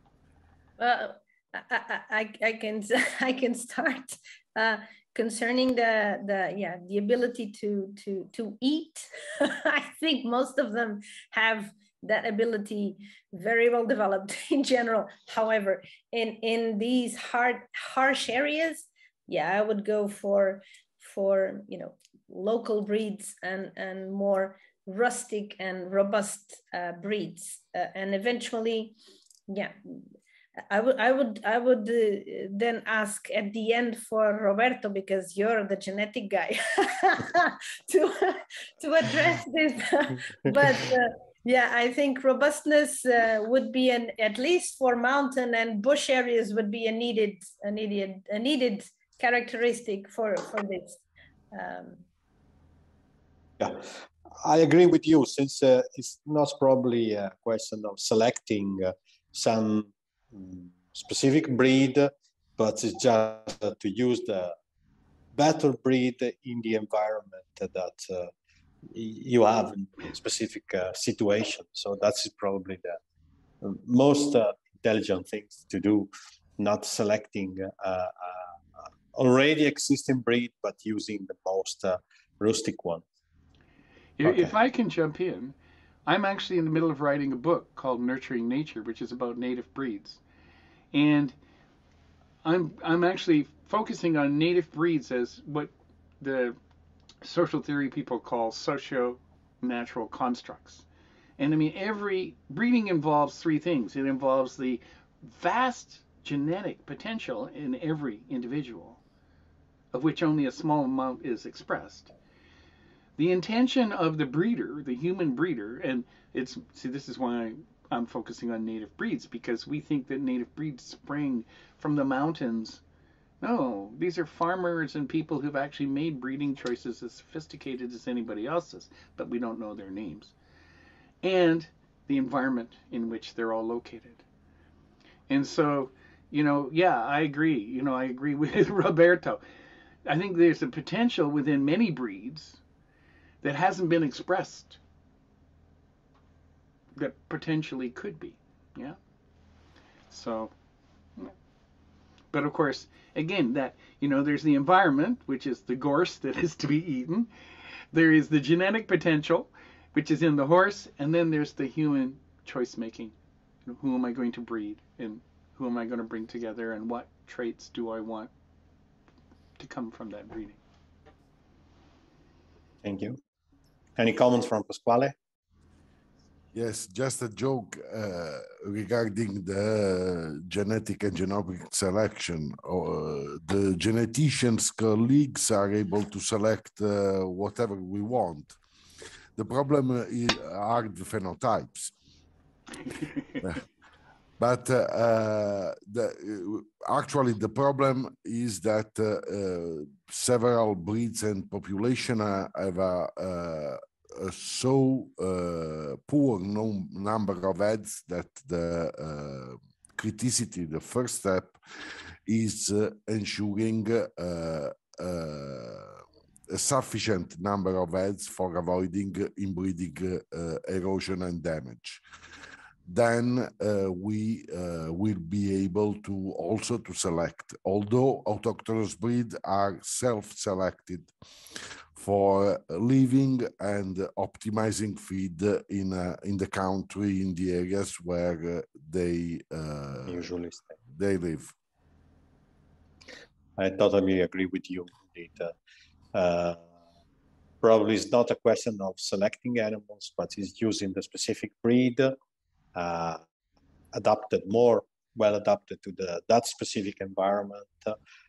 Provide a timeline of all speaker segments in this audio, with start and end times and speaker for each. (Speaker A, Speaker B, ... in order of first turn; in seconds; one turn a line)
Speaker A: 0.8-28.9
Speaker A: 29.5-29.9
Speaker A: 30.7-52.0
Speaker B: 53.6-53.9
Speaker B: 54.4-64.6
Speaker B: 65.3-68.3
Speaker B: 68.9-73.0
Speaker B: 73.6-78.5
Speaker B: 79.1-83.0
Speaker C: 84.2-85.5
Speaker B: 84.2-84.6
Speaker C: 86.1-90.2
Speaker C: 90.9-91.3
Speaker C: 92.4-96.6
Speaker C: 97.2-100.9
Speaker C: 101.4-109.0
Speaker C: 109.9-112.1
Speaker C: 113.2-122.8
Speaker C: 123.4-130.3
Speaker C: 131.2-134.2
Speaker C: 135.3-139.4
Speaker C: 140.1-142.6
Speaker C: 143.4-144.8
Speaker C: 146.9-149.0
Speaker C: 150.1-150.5
Speaker C: 152.3-157.3
Speaker C: 157.9-163.2
Speaker C: 163.7-168.3
Speaker C: 169.6-170.6
Speaker B: 172.8-173.2
Speaker B: 174.0-175.1
Speaker D: 176.5-188.6
Speaker D: 189.4-191.9
Speaker C: 192.9-193.4
Speaker D: 194.4-211.6
Speaker D: 212.3-222.0
Speaker D: 222.9-240.3
Speaker B: 240.1-240.8
Speaker D: 240.9-241.5
Speaker B: 243.6-245.5
Speaker B: 246.1-246.7
Speaker B: 247.6-252.2
Speaker B: 252.7-253.2
Speaker B: 253.9-257.9